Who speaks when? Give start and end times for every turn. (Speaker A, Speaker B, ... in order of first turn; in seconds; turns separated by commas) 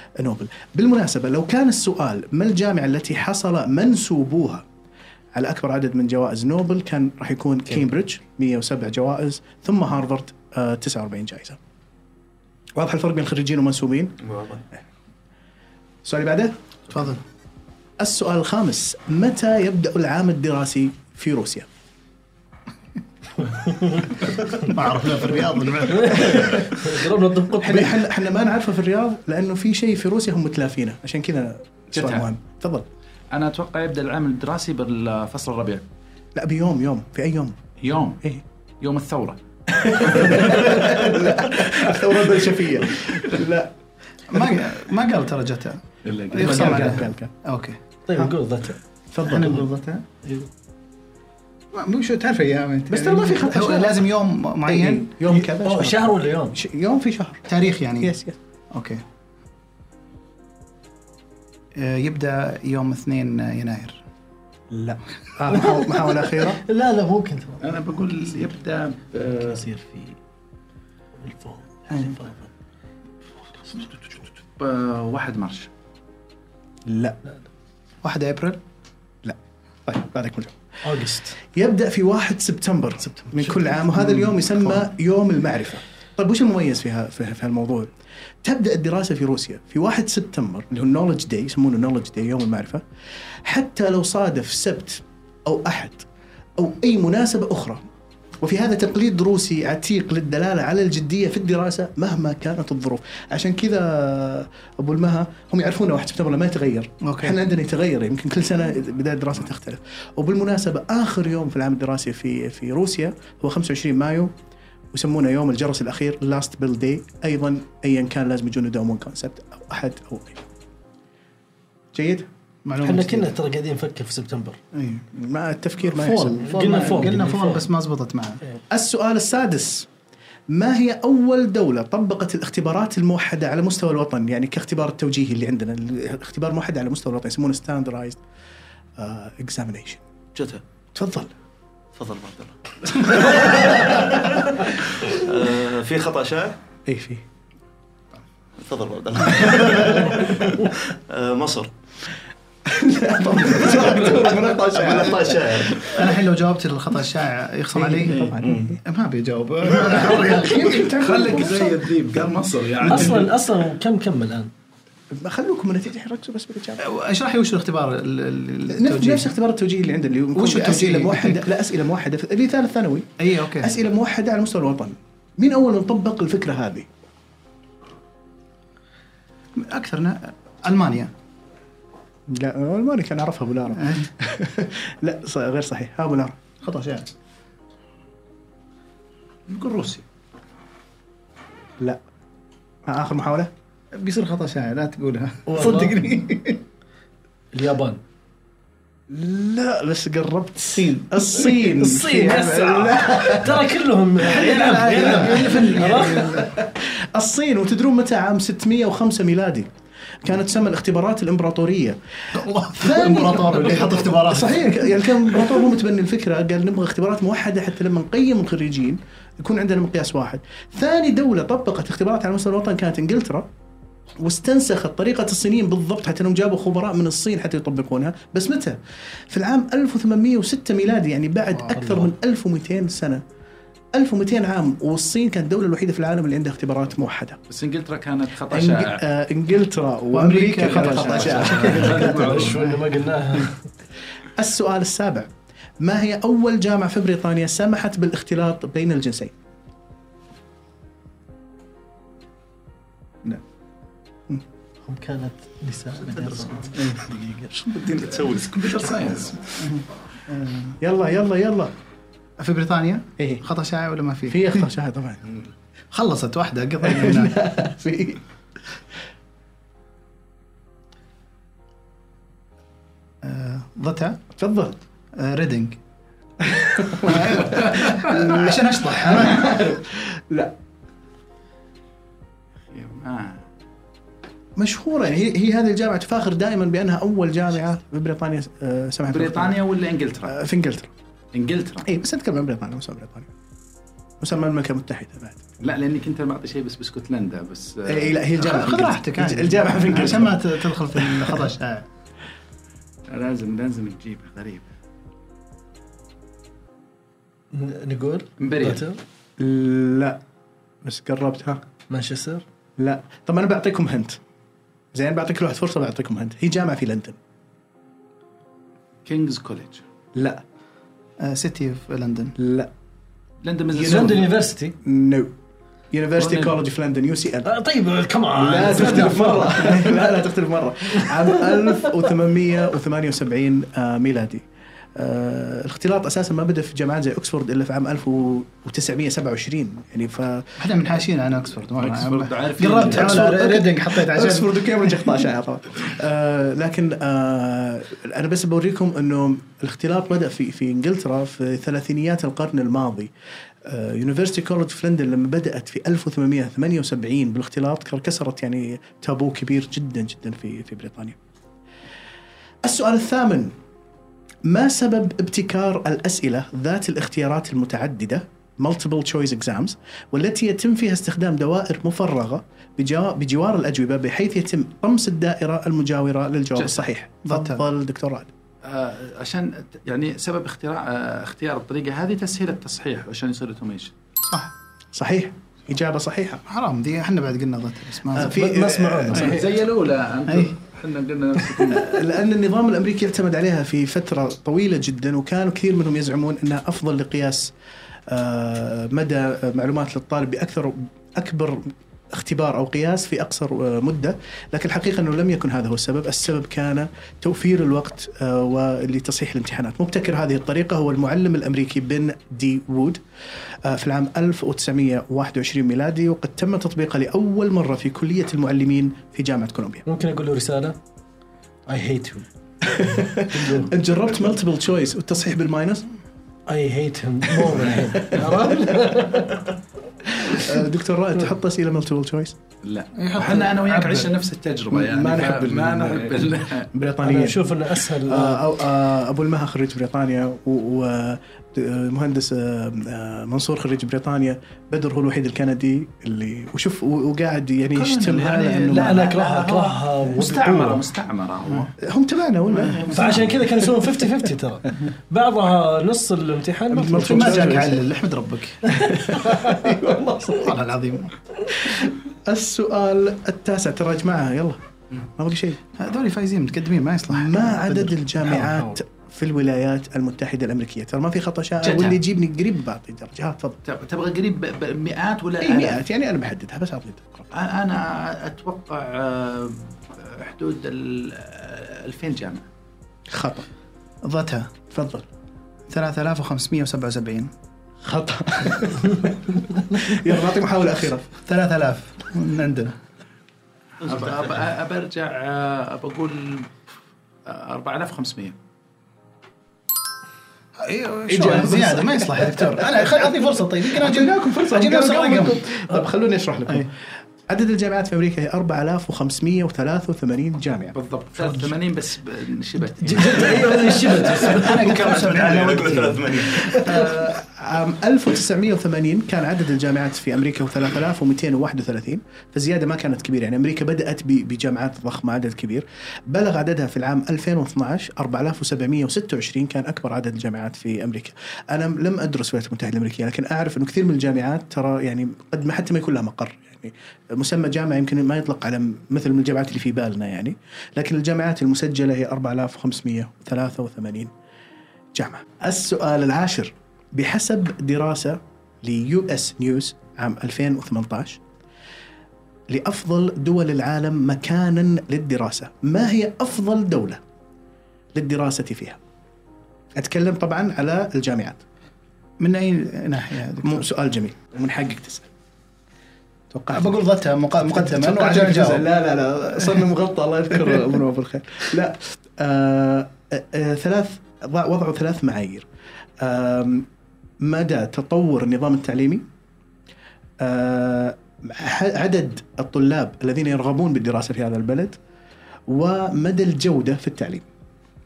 Speaker A: 0.2-4.6, Speaker A: 5.3-11.6, Speaker A: 12.8-14.2, Speaker B: 14.2-14.6, Speaker A: 16.0-16.5, Speaker C: 16.9-17.2, Speaker A: 18.0-21.7, Speaker D: 23.7-24.1, Speaker C: 24.5-26.7, Speaker D: 25.8-28.0, Speaker A: 27.6-32.9, Speaker E: 31.9-32.3, Speaker E: 33.3-35.8, Speaker A: 36.3-37.6, Speaker E: 37.8-38.2, Speaker E: 38.8-39.4, Speaker A: 39.7-43.7, Speaker E: 39.9-41.0, Speaker C: 44.3-47.8, Speaker A: 44.3-44.6, Speaker E: 46.0-47.0, Speaker A: 46.4-47.3, Speaker D: 48.1-48.8, Speaker A: 49.1-49.6, Speaker C: 49.2-50.0, Speaker C: 51.7-55.1, Speaker A: 52.9-54.0, Speaker A: 54.6-57.5, Speaker D: 55.2-56.6, Speaker C: 57.5-58.2, Speaker A: 58.0-58.4, Speaker C: 58.7-59.0, Speaker C: 61.7-64.0, Speaker A: 64.7-66.6, Speaker D: 65.5-67.8, Speaker E: 67.6-69.6, Speaker D: 69.4-70.2, Speaker D: 71.2-72.5, Speaker E: 74.1-75.7, Speaker A: 76.8-77.2, Speaker C: 78.0-78.6, Speaker A: 79.2-80.5, Speaker D: 80.8-81.4, Speaker A: 81.4-87.9, Speaker D: 83.2-83.7, Speaker A: 88.4-92.8, Speaker A: 93.4-96.1, Speaker A: 96.6-97.8, Speaker A: 98.4-114.3, Speaker C: 107.0-107.4, Speaker A: 114.9-120.5, Speaker A: 121.9-122.3, Speaker C: 122.6-123.3, Speaker D: 122.8-124.6, Speaker C: 124.7-125.0, Speaker A: 125.1-126.5, Speaker C: 125.9-128.4, Speaker D: 126.4-127.7, Speaker A: 128.7-129.9, Speaker A: 130.5-138.2, Speaker A: 139.0-140.0, Speaker B: 140.3-140.6, Speaker A: 140.9-141.3, Speaker B: 141.9-146.6, Speaker A: 146.8-147.2, Speaker B: 148.6-151.7, Speaker A: 152.7-155.9, Speaker B: 153.6-155.9, Speaker C: 155.8-158.3, Speaker A: 157.7-158.8, Speaker B: 158.4-158.8, Speaker C: 158.8-160.8, Speaker A: 159.7-161.8, Speaker E: 160.8-163.3, Speaker D: 162.8-164.5, Speaker A: 165.1-166.8, Speaker C: 166.8-169.3, Speaker A: 168.7-176.9, Speaker C: 170.3-171.4, Speaker C: 173.2-173.7, Speaker C: 179.6-181.1, Speaker A: 182.3-186.4, Speaker C: 183.7-184.1, Speaker C: 186.6-187.1, Speaker E: 189.5-190.0, Speaker A: 192.8-193.5, Speaker C: 193.9-196.6, Speaker D: 195.5-196.0, Speaker D: 197.5-198.0, Speaker A: 199.1-209.7, Speaker D: 201.4-206.4, Speaker C: 204.8-206.5, Speaker A: 210.2-212.0, Speaker C: 212.3-214.9, Speaker A: 212.6-223.5, Speaker A: 224.2-228.8, Speaker A: 229.3-233.2, Speaker D: 231.8-232.1, Speaker A: 233.9-237.4, Speaker E: 237.5-239.0, Speaker A: 238.5-242.3, Speaker C: 240.1-242.8, Speaker E: 240.6-242.6, Speaker D: 241.6-243.6, Speaker A: 244.3-245.3, Speaker A: 245.8-249.3, Speaker D: 254.8-257.6, Speaker B: 257.6-259.3, Speaker E: 257.9-259.4, Speaker C: 259.6-260.7, Speaker A: 260.8-261.7, Speaker C: 262.4-264.7, Speaker A: 263.2-263.4, Speaker A: 264.3-265.2, Speaker C: 265.9-267.4, Speaker A: 266.8-268.2, Speaker C: 273.2-274.2, Speaker A: 274.4-274.8, Speaker C: 275.1-275.8, Speaker A: 276.4-280.5, Speaker C: 277.0-279.6, Speaker E: 282.7-283.4, Speaker A: 284.6-289.6, Speaker E: 289.1-290.4, Speaker A: 290.2-290.9, Speaker E: 291.3-291.9, Speaker A: 291.8-293.3, Speaker A: 294.2-295.4, Speaker E: 295.6-298.3, Speaker A: 297.9-301.4, Speaker C: 298.4-301.9, Speaker E: 303.1-304.7, Speaker D: 307.5-309.0, Speaker E: 308.4-308.8, Speaker A: 309.4-310.2, Speaker A: 310.8-311.6, Speaker D: 311.9-312.4, Speaker A: 312.8-314.2, Speaker A: 314.9-317.2, Speaker E: 319.0-319.8, Speaker A: 320.1-320.4, Speaker C: 321.2-322.4, Speaker A: 322.4-322.7, Speaker E: 323.4-324.3, Speaker A: 323.7-324.2, Speaker D: 323.8-324.7, Speaker A: 324.8-325.3, Speaker A: 325.9-327.5, Speaker E: 326.2-326.5, Speaker D: 327.4-330.0, Speaker A: 328.3-340.6, Speaker D: 331.0-331.6, Speaker C: 340.6-345.1, Speaker E: 341.8-343.3, Speaker A: 342.8-353.1, Speaker A: 353.6-361.2, Speaker A: 362.6-363.5, Speaker A: 364.4-378.3, Speaker E: 376.6-376.8, Speaker C: 377.2-377.6, Speaker E: 378.6-383.9, Speaker A: 384.9-386.4, Speaker C: 386.5-388.3, Speaker A: 388.1-389.4, Speaker D: 388.2-389.5, Speaker E: 389.1-392.0, Speaker C: 390.3-390.5, Speaker A: 391.7-397.5, Speaker A: 398.1-413.0, Speaker A: 413.6-419.8, Speaker D: 419.9-420.8, Speaker D: 421.7-422.3, Speaker A: 422.6-425.9, Speaker D: 423.3-423.7, Speaker D: 426.5-429.5, Speaker A: 427.4-429.2, Speaker A: 430.1-432.4, Speaker E: 432.6-436.7, Speaker C: 432.9-434.1, Speaker A: 434.7-449.1, Speaker D: 437.0-438.4, Speaker E: 447.7-451.7, Speaker D: 448.7-450.8, Speaker A: 451.8-453.5, Speaker D: 452.9-457.6, Speaker A: 456.7-457.8, Speaker C: 457.0-458.9, Speaker A: 458.8-460.4, Speaker D: 458.8-459.6, Speaker C: 459.5-461.1, Speaker A: 461.6-465.6, Speaker C: 465.7-468.0, Speaker A: 467.1-473.6, Speaker D: 468.4-468.7, Speaker E: 471.6-472.0, Speaker E: 473.6-475.8, Speaker A: 475.4-477.3, Speaker E: 477.3-482.4, Speaker A: 483.1-483.4, Speaker C: 484.0-484.5, Speaker A: 484.7-485.1, Speaker C: 485.7-487.3, Speaker A: 487.8-491.1, Speaker C: 491.2-492.8, Speaker E: 493.8-496.5, Speaker B: 493.8-494.2, Speaker E: 497.2-498.4, Speaker C: 500.6-505.5, Speaker A: 501.1-503.1, Speaker A: 503.6-506.7, Speaker A: 507.3-510.8, Speaker E: 510.7-514.2, Speaker D: 512.8-514.9, Speaker C: 514.2-516.6, Speaker B: 514.4-516.8, Speaker A: 516.4-544.1, Speaker A: 544.9-551.2, Speaker A: 552.5-557.0, Speaker A: 557.9-558.8, Speaker A: 559.8-561.4, Speaker C: 562.2-563.6, Speaker A: 563.4-565.1, Speaker A: 566.3-566.8, Speaker C: 566.5-568.7, Speaker A: 567.4-575.5, Speaker A: 576.0-576.7, Speaker A: 577.2-579.0, Speaker A: 580.2-584.8, Speaker A: 585.5-587.2